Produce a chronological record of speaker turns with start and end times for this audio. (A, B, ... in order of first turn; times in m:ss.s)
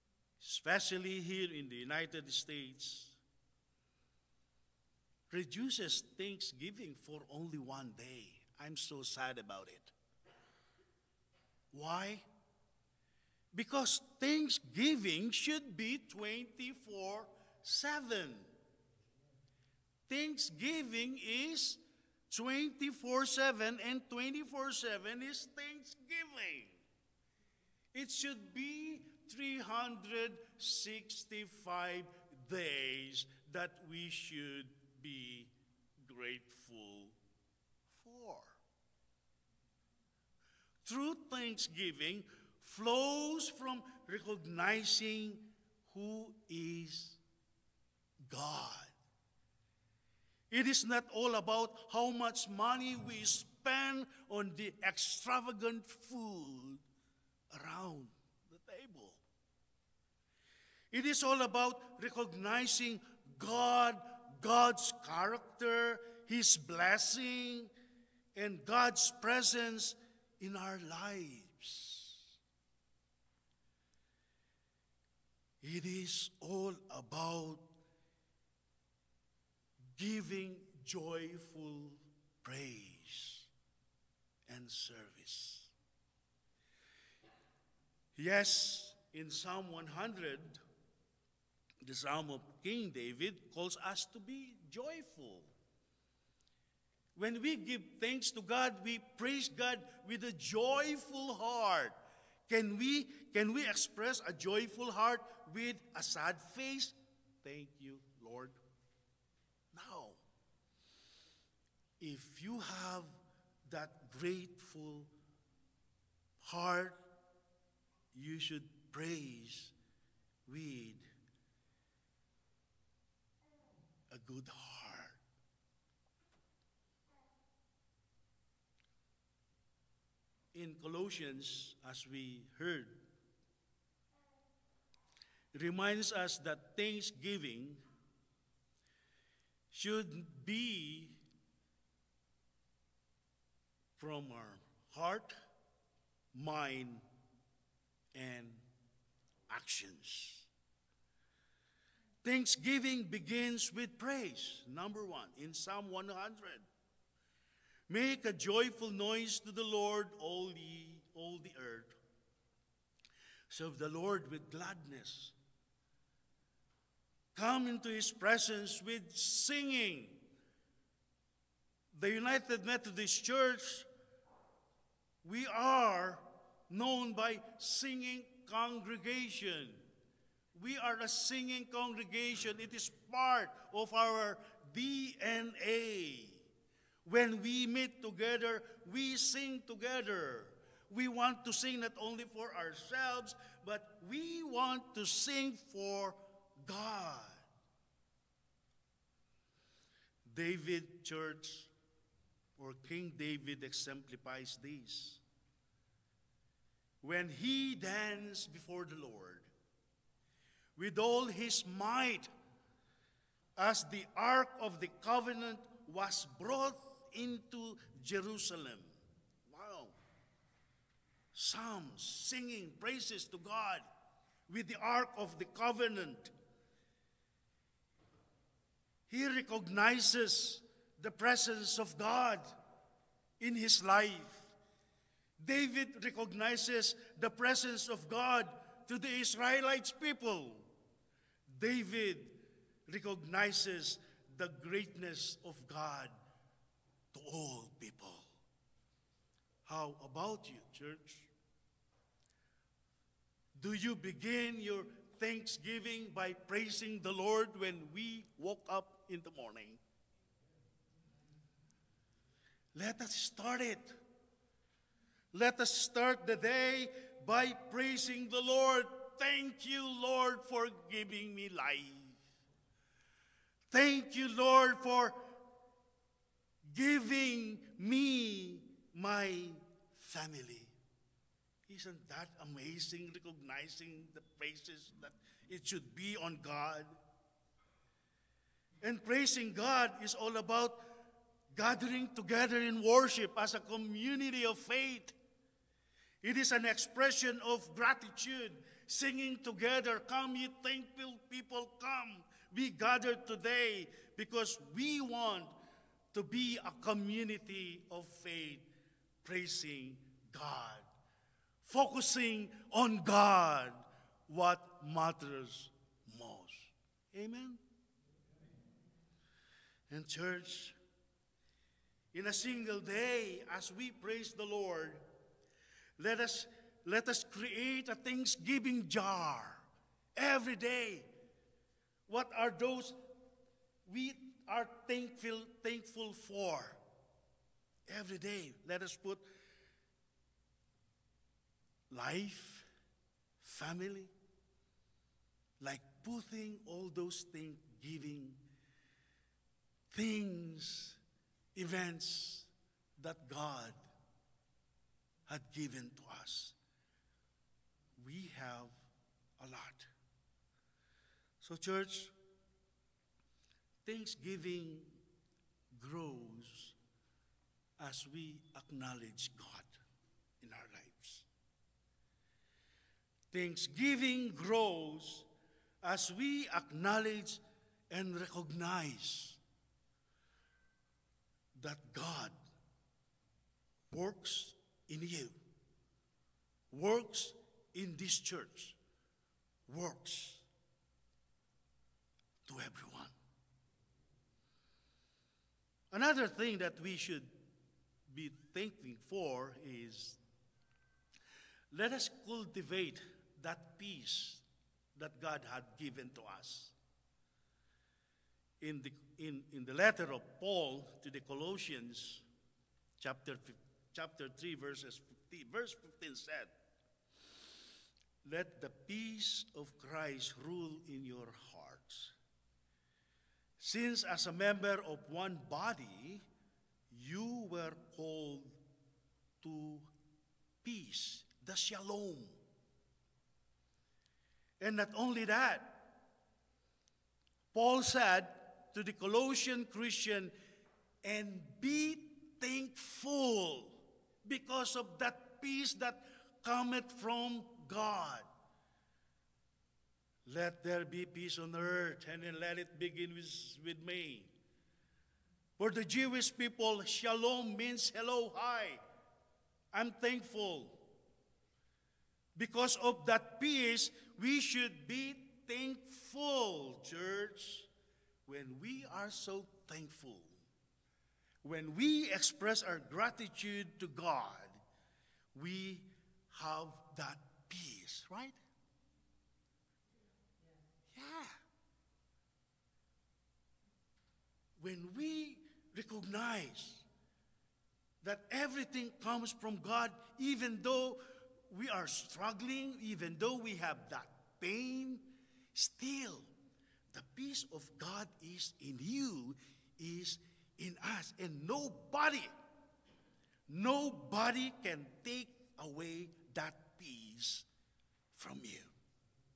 0:00.4-0:03.2 A
0:05.3-0:09.9 A
0:11.7-0:12.2 A
0:13.5-0:18.5 A
0:20.1-0:26.8 A
0:27.9-0:37.2 A
0:37.9-0:38.6 A
0:40.8-0:47.2 A
0:48.2-0:48.9 A
0:50.5-0:56.8 A
0:57.5-0:59.2 A
1:00.9-1:07.7 A
1:08.3-1:12.3 A
1:15.6-1:17.8 A
1:20.0-1:23.5 A
1:24.5-1:25.7 A
1:28.2-1:30.6 A
1:31.8-1:35.5 A
1:37.2-1:42.0 A
1:42.5-1:48.6 A
1:49.7-1:50.2 A
1:52.0-1:53.1 A
1:53.7-1:55.1 A
1:56.4-1:57.0 A
1:58.1-1:59.7 A
2:00.4-2:01.0 A
2:04.1-2:05.2 A
2:10.5-2:13.0 A
2:15.5-2:17.8 A
2:19.7-2:21.2 A
2:24.0-2:25.3 A
2:26.3-2:27.0 A
2:28.1-2:28.6 A
2:29.5-2:30.5 A
2:32.2-2:36.6 A
2:37.9-2:41.9 A
2:43.5-2:45.3 A
2:47.3-2:50.2 A
2:51.9-2:53.9 A
2:55.2-2:59.8 A
3:00.5-3:06.5 A
3:07.0-3:17.4 A
3:20.2-3:21.7 A
3:22.6-3:25.2 A
3:27.0-3:29.5 A
3:30.8-3:32.3 A
3:33.6-3:38.9 A
3:39.4-3:39.9 A
3:41.3-3:43.8 A
3:44.5-3:46.3 A
3:49.1-3:52.5 A
3:53.4-3:54.5 A
3:55.4-4:00.7 A
4:01.5-4:06.1 A
4:07.1-4:08.3 A
4:09.6-4:11.3 A
4:13.6-4:19.8 A
4:22.7-4:23.9 A
4:25.3-4:32.2 A
4:33.7-4:35.2 A
4:36.7-4:40.7 A
4:41.7-4:47.0 A
4:48.8-4:50.8 A
4:51.5-4:55.2 A
4:56.2-5:05.5 A
5:06.1-5:08.7 A
5:09.2-5:10.9 A
5:11.6-5:17.6 A
5:19.9-5:20.8 A
5:22.1-5:25.0 A
5:26.0-5:31.1 A
5:32.1-5:33.0 A
5:33.8-5:36.8 A
5:37.9-5:39.2 A
5:41.9-5:42.7 A
5:43.4-5:44.1 A
5:45.6-5:48.4 A
5:49.9-5:51.0 A
5:51.5-5:53.8 A
5:55.3-5:56.6 A
5:58.0-5:58.7 A
5:59.4-5:59.9 A
6:01.4-6:02.1 A
6:03.8-6:05.0 A
6:05.7-6:06.8 A
6:07.8-6:09.8 A
6:10.4-6:11.2 A
6:13.3-6:15.3 A
6:15.8-6:19.4 A
6:21.6-6:22.4 A
6:23.9-6:25.4 A
6:26.7-6:28.8 A
6:29.7-6:30.4 A
6:32.4-6:33.1 A
6:35.9-6:37.3 A
6:38.1-6:40.2 A
6:41.7-6:44.4 A
6:44.9-6:46.7 A
6:48.6-6:52.2 A
6:53.0-6:56.5 A
6:58.2-7:02.1 A
7:03.6-7:06.2 A
7:06.9-7:08.6 A
7:09.4-7:09.9 A
7:10.6-7:12.4 A
7:14.6-7:15.9 A
7:17.5-7:20.3 A
7:21.0-7:28.2 A
7:30.2-7:34.3 A
7:35.6-7:38.8 A
7:39.7-7:40.8 A
7:42.4-7:47.7 A
7:48.2-7:50.3 A
7:51.4-7:54.6 A
7:55.3-7:58.4 A
8:00.9-8:01.3 A
8:04.6-8:06.8 A
8:08.0-8:16.3 A
8:16.9-8:22.3 A
8:23.5-8:27.5 A
8:28.1-8:28.7 A